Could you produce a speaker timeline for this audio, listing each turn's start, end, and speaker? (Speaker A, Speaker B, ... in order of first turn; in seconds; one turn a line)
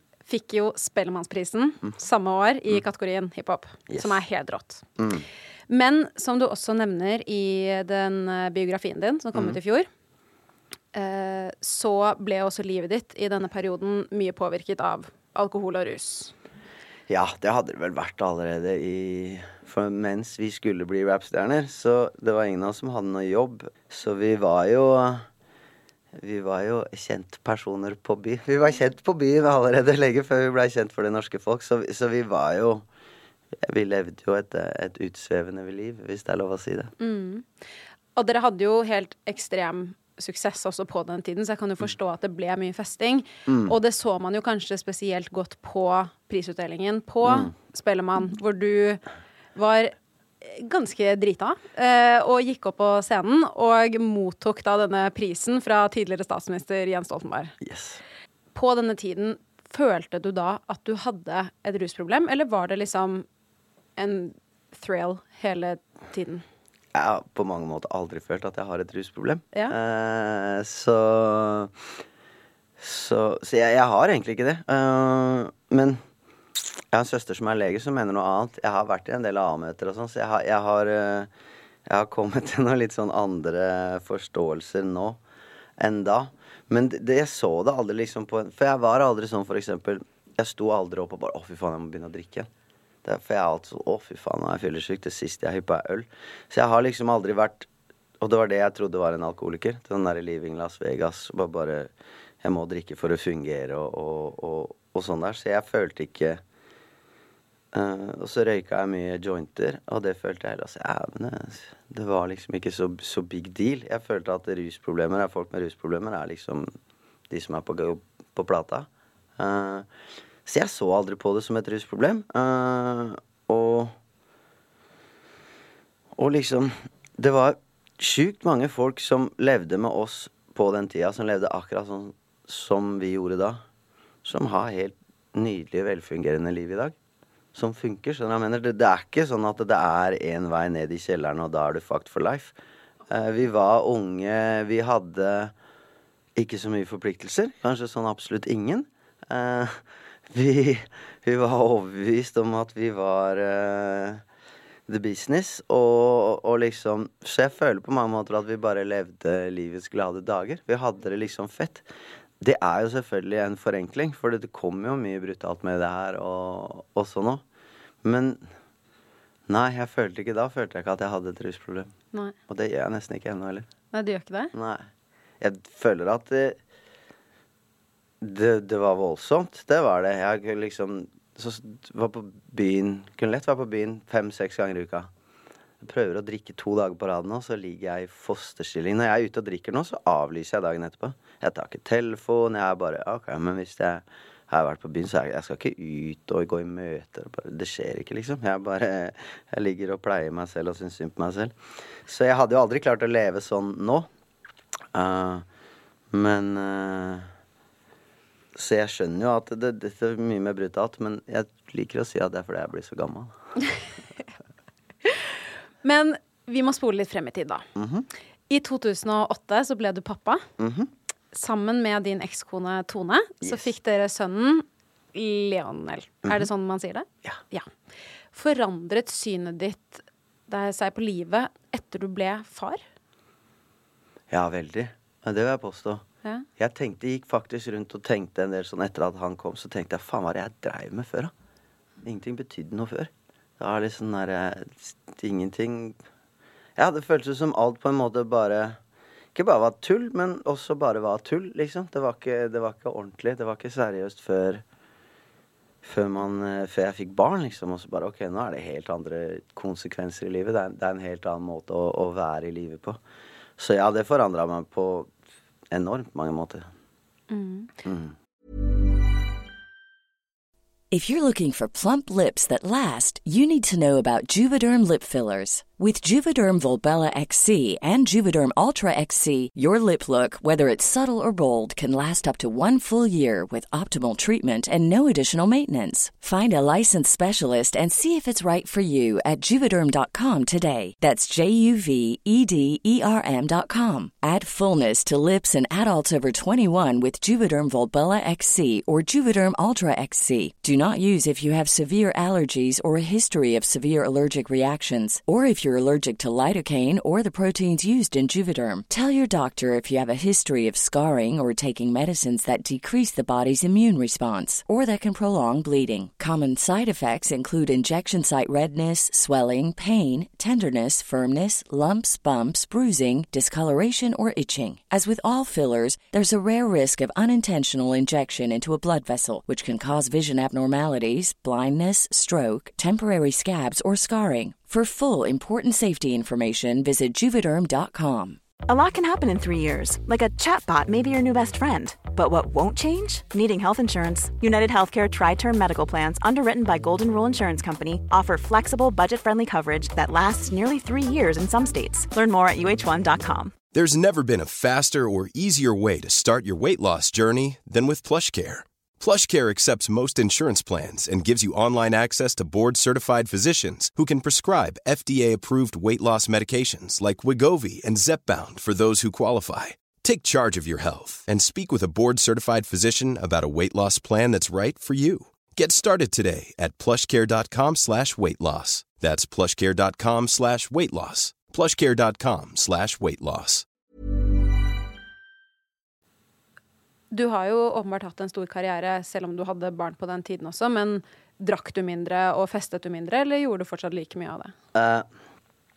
Speaker A: 0.3-4.8
Speaker B: 3.9-4.2
Speaker B: 5.0-5.3
Speaker A: 5.7-9.9
Speaker A: 10.9-16.3
Speaker B: 17.1-25.2
Speaker B: 26.1-32.9
Speaker B: 33.6-36.9
Speaker A: 37.0-37.5
Speaker A: 38.1-49.0
Speaker B: 43.5-43.7
Speaker B: 47.2-47.5
Speaker A: 49.5-57.5
Speaker B: 57.6-58.0
Speaker A: 58.5-63.2
Speaker A: 64.0-66.4
Speaker B: 66.9-71.7
Speaker B: 72.8-76.0
Speaker B: 76.5-81.3
Speaker B: 81.8-85.2
Speaker B: 85.8-92.5
Speaker B: 93.0-97.7
Speaker B: 98.2-106.4
Speaker B: 107.7-116.7
Speaker B: 117.3-119.9
Speaker B: 120.5-124.0
Speaker B: 126.2-133.6
Speaker B: 134.2-136.9
Speaker B: 137.5-142.5
Speaker B: 143.1-145.5
Speaker B: 146.3-154.2
Speaker B: 154.9-161.8
Speaker B: 162.4-167.4
Speaker B: 168.0-168.5
Speaker B: 169.5-171.9
Speaker B: 172.5-173.7
Speaker A: 173.9-174.5
Speaker B: 174.5-174.9
Speaker B: 175.4-176.6
Speaker B: 178.2-185.1
Speaker B: 185.8-201.5
Speaker B: 202.1-204.1
Speaker B: 204.9-205.4
Speaker B: 206.1-207.3
Speaker B: 208.5-213.3
Speaker A: 215.8-217.6
Speaker B: 217.8-218.1
Speaker A: 218.5-220.5
Speaker B: 220.6-220.9
Speaker A: 221.3-227.7
Speaker B: 223.4-223.7
Speaker A: 228.3-232.8
Speaker B: 234.3-236.0
Speaker B: 236.6-241.3
Speaker B: 242.0-246.0
Speaker B: 246.8-248.8
Speaker B: 249.3-254.6
Speaker B: 255.8-263.0
Speaker B: 263.6-265.1
Speaker B: 265.7-266.7
Speaker A: 267.3-267.7
Speaker B: 267.8-268.1
Speaker C: 270.9-338.4
Speaker D: 338.7-353.5
Speaker E: 353.7-383.6
Speaker A: 387.1-394.5
Speaker B: 394.7-395.1